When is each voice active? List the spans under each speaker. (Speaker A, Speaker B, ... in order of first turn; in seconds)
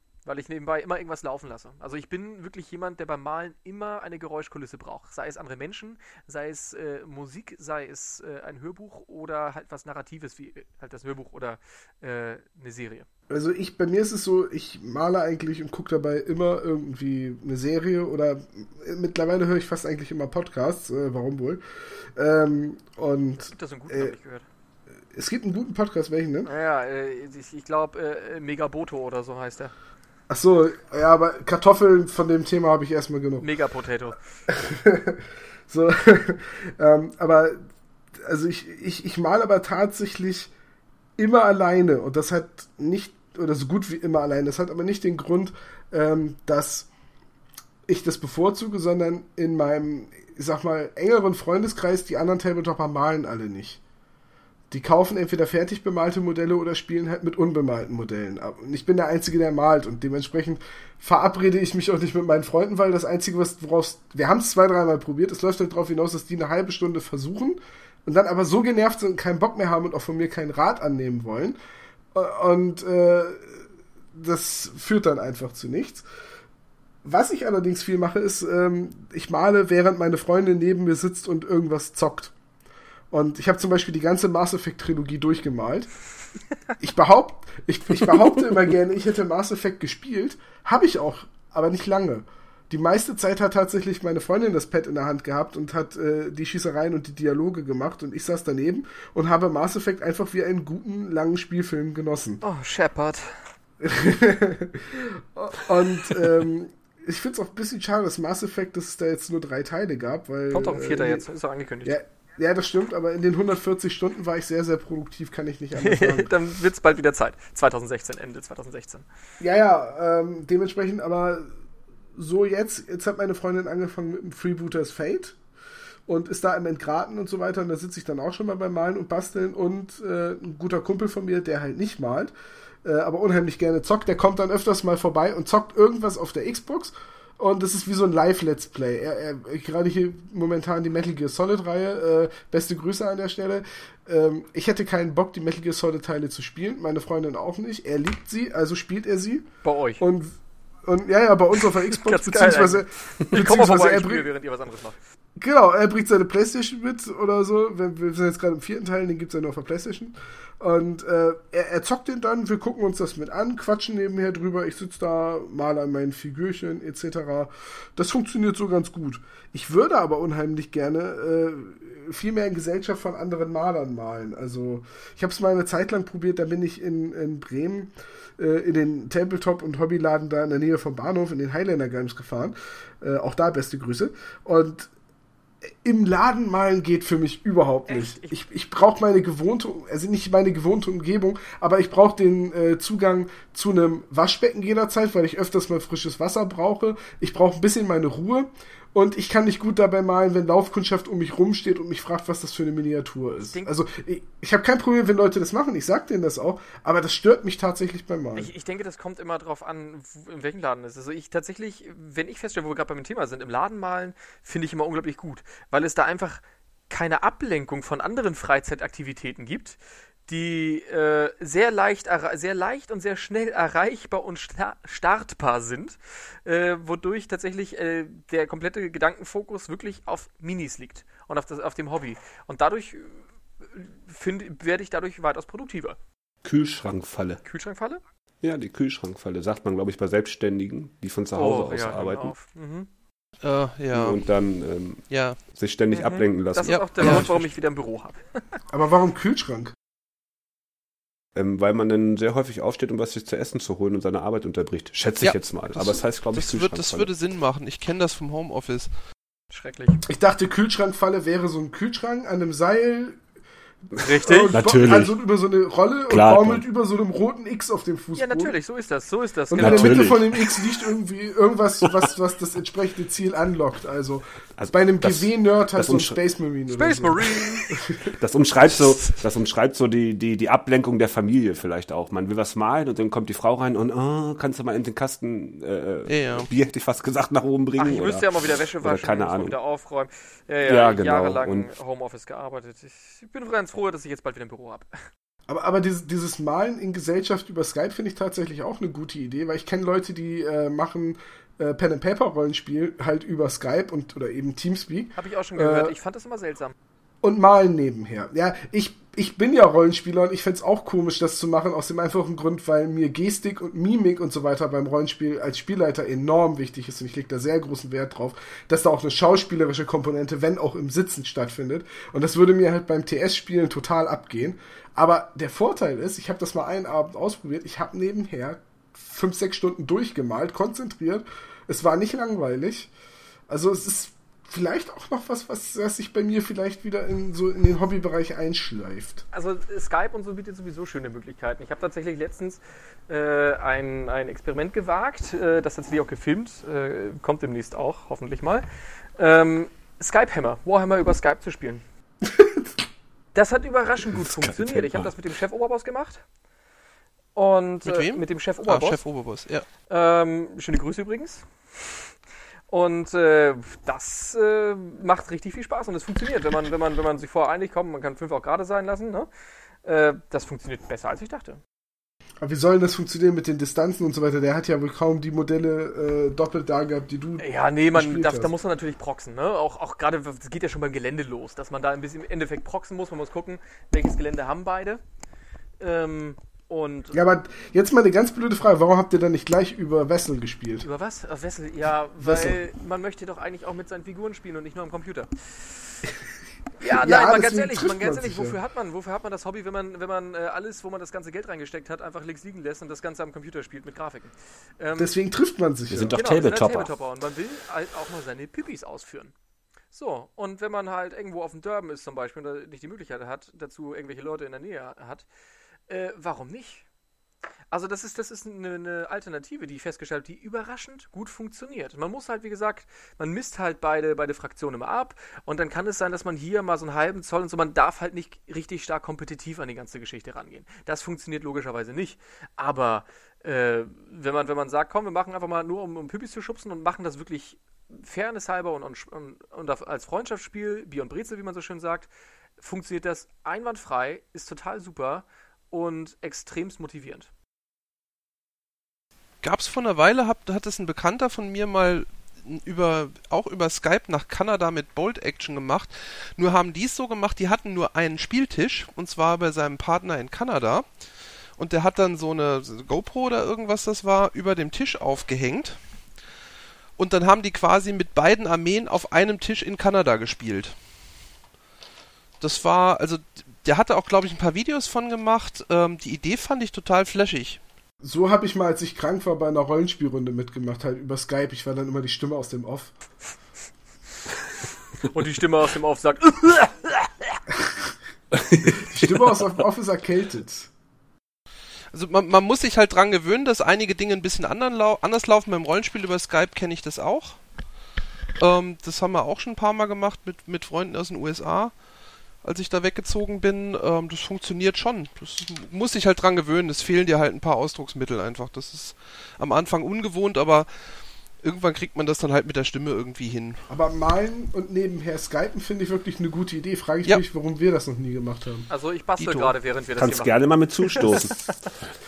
Speaker A: 0.2-13.1, 23.4-24.4, 26.4-29.7, 33.4-34.2, 102.4-103.4, 110.5-112.0, 115.8-119.0, 149.6-150.0, 151.8-155.0, 187.9-188.4, 203.4-203.7, 208.3-236.0, 237.4-238.0, 241.3-242.9, 245.9-248.4, 259.5-260.0, 264.0-264.6, 268.1-270.1, 276.7-277.8, 287.8-294.9, 305.1-306.7, 339.3-348.6, 349.2-351.8, 353.3-356.2, 357.3-359.0, 359.9-362.1, 362.7-369.3, 369.8-371.6, 377.4-385.0, 385.8-387.2, 390.8-395.3, 396.8-405.1, 406.1-409.3, 409.9-415.3, 415.9-416.8, 417.7-447.3, 485.1-487.1, 518.7-520.4
Speaker B: 13.3-21.6, 22.1-24.1, 25.1-26.5, 30.3-33.5, 34.5-37.6, 38.2-40.5, 41.2-46.9, 47.9-53.8, 54.7-71.6, 72.1-76.0, 77.0-82.3, 83.1-85.9, 86.8-102.4, 103.8-111.2, 111.8-116.3, 119.4-121.5, 122.1-125.4, 126.1-132.3, 132.8-149.4, 150.0-154.3, 155.4-184.9, 185.8-208.5, 248.7-249.7, 260.1-263.2, 264.2-268.5, 269.5-278.1, 295.5-305.9, 307.2-332.9, 333.5-339.2, 352.3-352.6, 372.4-378.5, 387.1-390.9, 392.2-392.6, 396.8-398.6, 404.9-406.1, 478.0-482.9, 488.7-490.7, 513.7-518.7
Speaker C: 236.4-237.4, 238.4-242.3, 243.9-247.4, 251.3-257.1, 264.5-265.1, 266.1-266.6, 269.5-270.8, 274.6-276.2, 278.2-289.6, 290.7-291.7, 354.1-355.1, 405.9-406.9, 488.3-489.4, 520.0-521.6
Speaker D: 243.4-244.2, 245.1-245.4, 246.6-247.3, 255.2-258.9, 286.1-286.5, 357.8-359.7, 449.4-460.9, 461.6-465.8, 467.0-470.8, 472.4-477.6, 491.9-497.4, 498.4-501.7, 502.4-510.7, 511.4-513.6, 519.2-519.5